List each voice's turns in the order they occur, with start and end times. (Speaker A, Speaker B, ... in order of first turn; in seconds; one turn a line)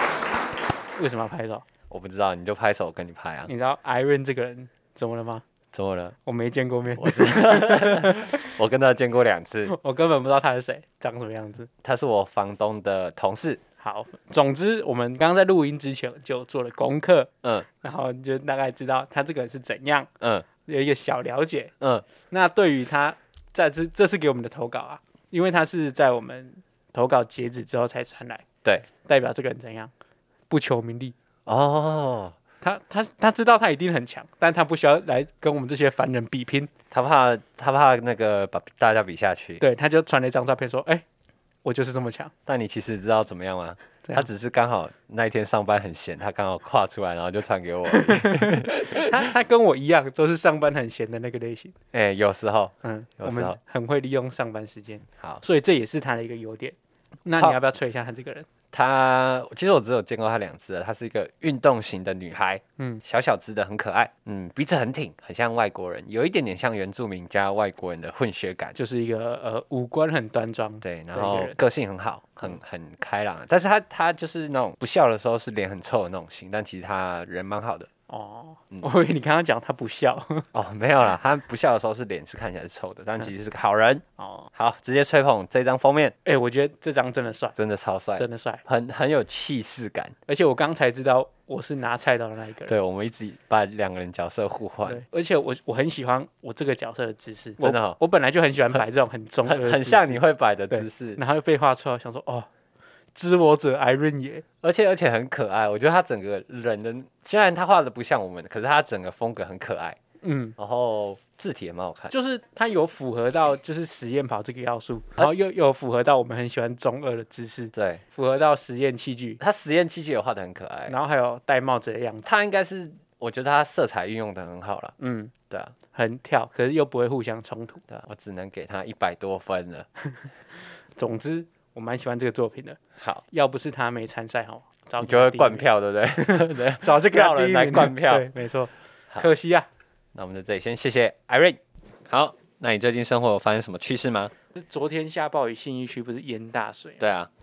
Speaker A: 1.0-1.6
Speaker B: 1.9-3.5
Speaker A: 3.5-5.4
Speaker B: 5.7-6.2
Speaker A: 6.2-8.4
Speaker B: 7.0-9.7
Speaker A: 9.7-11.7
Speaker B: 11.8-13.6
Speaker A: 13.8-20.1
Speaker B: 20.2-20.5
Speaker A: 20.6-21.7
Speaker B: 21.8-22.1
Speaker A: 22.3-28.4
Speaker A: 29.0-29.9
Speaker A: 30.5-31.1
Speaker B: 31.4-32.4
Speaker A: 32.6-36.7
Speaker B: 36.9-39.6
Speaker A: 39.6-41.0
Speaker A: 41.6-42.3
Speaker B: 42.5-49.1
Speaker A: 47.9-51.7
Speaker B: 51.9-53.6
Speaker A: 52.8-58.5
Speaker B: 57.3-57.6
Speaker B: 58.7-68.8
Speaker A: 62.8-63.0
Speaker A: 68.8-71.6
Speaker B: 70.8-77.9
Speaker A: 78.1-80.5
Speaker B: 80.5-86.1
Speaker A: 84.2-84.5
Speaker A: 86.2-87.6
Speaker B: 87.6-90.1
Speaker A: 88.1-88.6
Speaker A: 90.3-92.7
Speaker B: 92.7-95.0
Speaker A: 94.8-102.5
Speaker B: 97.6-98.0
Speaker B: 99.5-101.2
Speaker A: 103.1-104.4
Speaker B: 104.6-110.0
Speaker A: 110.2-110.5
Speaker B: 110.6-112.1
Speaker A: 112.1-119.4
Speaker B: 117.7-118.0
Speaker B: 119.4-121.0
Speaker A: 120.9-122.3
Speaker B: 122.2-125.0
Speaker A: 125.0-125.3
Speaker A: 125.9-127.8
Speaker B: 127.9-129.9
Speaker A: 130.9-135.6
Speaker B: 135.0-138.3
Speaker A: 136.2-139.7
Speaker B: 140.1-144.3
Speaker A: 144.5-147.0
Speaker B: 147.0-147.3